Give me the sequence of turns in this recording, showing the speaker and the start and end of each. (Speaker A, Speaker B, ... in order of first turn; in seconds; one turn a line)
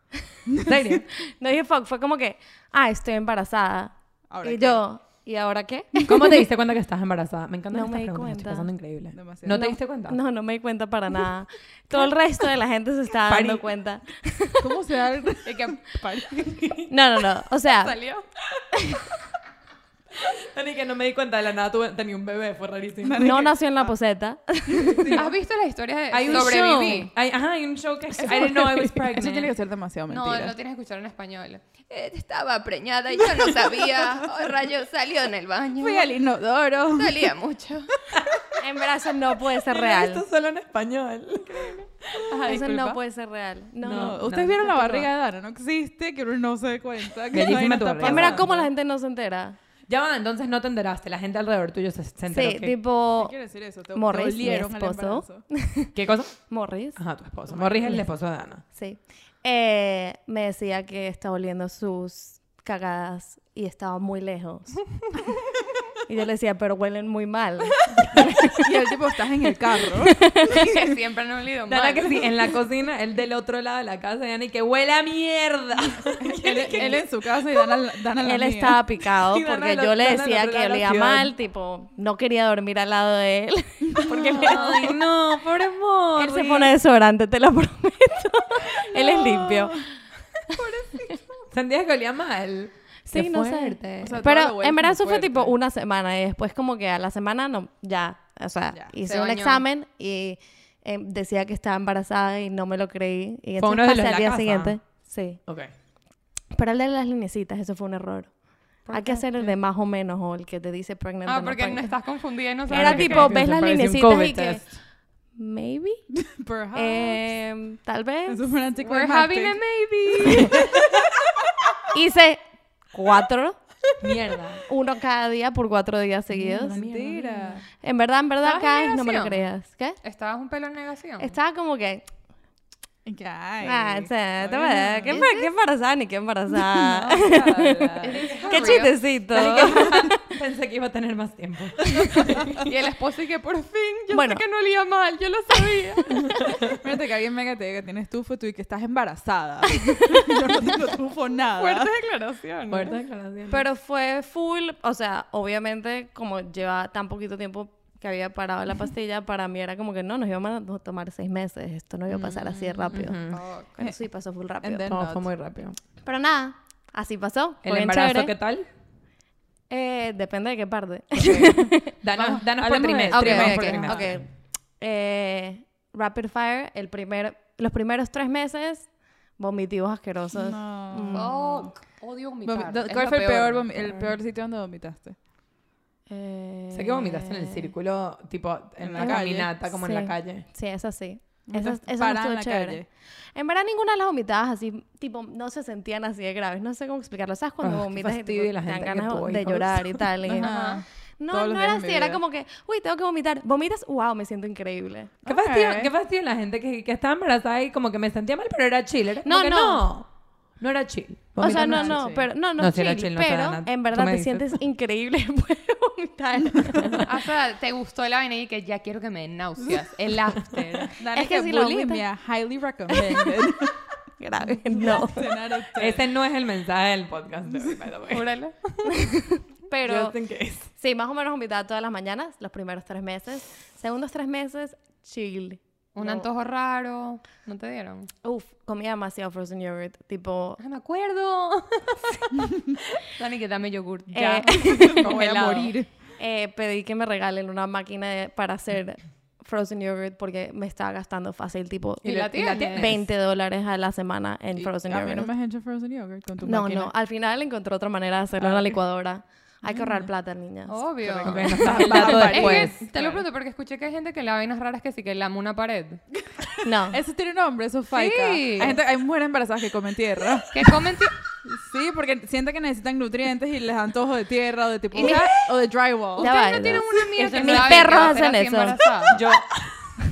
Speaker A: 0.6-1.1
Speaker B: 1.1-6.5
Speaker C: 4.3-4.8
Speaker A: 6.1-10.2
Speaker B: 7.7-8.7
Speaker C: 9.1-9.6
Speaker B: 9.5-14.7
Speaker A: 13.3-13.7
Speaker C: 14.6-16.6
Speaker D: 15.4-16.6
Speaker A: 16.6-16.9
Speaker B: 16.9-18.0
Speaker D: 17.7-18.2
Speaker A: 20.2-23.4
Speaker C: 23.0-23.9
Speaker B: 23.2-25.2
Speaker C: 24.7-25.2
Speaker D: 25.1-27.1
Speaker A: 26.1-29.5
Speaker B: 26.3-27.0
Speaker B: 28.1-28.5
Speaker C: 28.2-30.6
Speaker D: 30.1-36.2
Speaker C: 33.6-34.0
Speaker C: 35.8-37.3
Speaker D: 37.0-37.9
Speaker B: 38.6-40.2
Speaker A: 39.5-42.2
Speaker C: 42.3-43.0
Speaker B: 42.4-45.1
Speaker A: 43.8-44.8
Speaker C: 43.9-48.7
Speaker A: 47.3-48.6
Speaker B: 48.0-49.6
Speaker A: 49.9-52.8
Speaker B: 52.3-53.4
Speaker C: 53.2-55.4
Speaker B: 53.9-57.0
Speaker A: 56.0-56.4
Speaker A: 57.0-58.6
Speaker C: 57.5-57.9
Speaker B: 58.7-64.8
Speaker B: 66.1-68.8
Speaker C: 68.6-70.7
Speaker B: 70.1-70.7
Speaker D: 70.4-72.6
Speaker A: 71.7-77.0
Speaker C: 76.2-78.8
Speaker B: 78.2-85.0
Speaker A: 79.1-81.3
Speaker C: 83.9-84.6
Speaker A: 84.1-86.7
Speaker B: 86.2-89.9
Speaker C: 88.7-89.9
Speaker B: 90.5-91.1
Speaker C: 90.5-91.4
Speaker A: 91.5-94.2
Speaker B: 93.1-105.4
Speaker C: 94.0-95.5
Speaker D: 99.0-99.6
Speaker A: 103.6-104.8
Speaker B: 106.5-108.3
Speaker D: 108.9-109.3
Speaker B: 108.9-111.9
Speaker D: 111.2-113.4
Speaker B: 112.7-114.6
Speaker A: 112.7-114.7
Speaker B: 115.3-116.1
Speaker C: 116.2-117.3
Speaker B: 116.7-118.4
Speaker C: 118.3-119.6
Speaker D: 118.8-120.7
Speaker B: 120.2-120.7
Speaker C: 120.4-120.7
Speaker B: 121.9-123.6
Speaker A: 124.0-124.6
Speaker B: 124.7-126.8
Speaker C: 126.3-127.7
Speaker A: 126.4-127.6
Speaker B: 127.8-130.0
Speaker D: 128.4-129.4
Speaker D: 130.0-131.3
Speaker B: 131.2-132.1
Speaker C: 133.1-135.2
Speaker B: 133.6-140.3
Speaker C: 136.6-138.0
Speaker A: 137.3-142.7
Speaker D: 138.0-139.6
Speaker C: 142.0-142.3
Speaker D: 142.6-146.3
Speaker B: 144.1-144.4
Speaker A: 146.3-146.7
Speaker C: 146.8-151.9
Speaker D: 151.6-153.0
Speaker A: 152.7-153.6
Speaker B: 153.5-163.2
Speaker C: 162.1-163.1
Speaker A: 162.9-163.4
Speaker D: 163.3-163.8
Speaker B: 163.8-165.0
Speaker C: 164.6-165.3
Speaker A: 164.9-165.8
Speaker B: 166.0-168.3
Speaker A: 167.6-168.7
Speaker B: 169.7-171.9
Speaker A: 171.2-174.2
Speaker C: 172.1-174.1
Speaker B: 173.1-181.5
Speaker C: 180.3-181.3
Speaker D: 181.1-183.7
Speaker C: 182.4-185.2
Speaker A: 183.9-184.1
Speaker B: 186.1-187.7
Speaker A: 186.7-190.4
Speaker C: 188.8-189.5
Speaker B: 189.0-192.8
Speaker C: 191.5-192.9
Speaker B: 193.3-200.6
Speaker A: 197.6-200.1
Speaker C: 200.3-202.2
Speaker D: 200.4-200.8
Speaker B: 201.2-205.1
Speaker C: 205.2-205.9
Speaker A: 205.3-210.1
Speaker B: 209.2-209.9
Speaker A: 210.6-214.5
Speaker B: 211.4-217.1
Speaker C: 211.4-212.3
Speaker A: 216.8-217.1
Speaker D: 217.1-221.0
Speaker C: 220.9-223.8
Speaker B: 221.1-222.0
Speaker B: 222.9-223.4
Speaker B: 224.2-225.4
Speaker C: 224.7-226.1
Speaker A: 225.8-228.3
Speaker D: 228.1-229.1
Speaker B: 228.9-230.2
Speaker A: 229.8-230.7
Speaker B: 230.7-236.3
Speaker D: 235.9-238.1
Speaker B: 238.2-240.6
Speaker D: 240.6-244.8
Speaker B: 244.1-245.2
Speaker C: 244.5-245.9
Speaker A: 244.9-245.7
Speaker B: 246.2-255.3
Speaker A: 252.0-253.1
Speaker D: 252.0-252.9
Speaker C: 254.6-256.9
Speaker B: 256.4-262.1
Speaker C: 258.4-258.8
Speaker C: 259.6-260.1
Speaker D: 260.7-266.0
Speaker A: 261.2-262.8
Speaker C: 261.5-263.2
Speaker B: 266.6-267.0
Speaker C: 266.9-270.8
Speaker D: 267.9-268.8
Speaker D: 270.5-271.1
Speaker C: 271.4-276.3
Speaker B: 275.0-275.3
Speaker B: 276.2-278.8
Speaker D: 276.2-279.2
Speaker A: 277.3-278.0
Speaker A: 279.1-279.9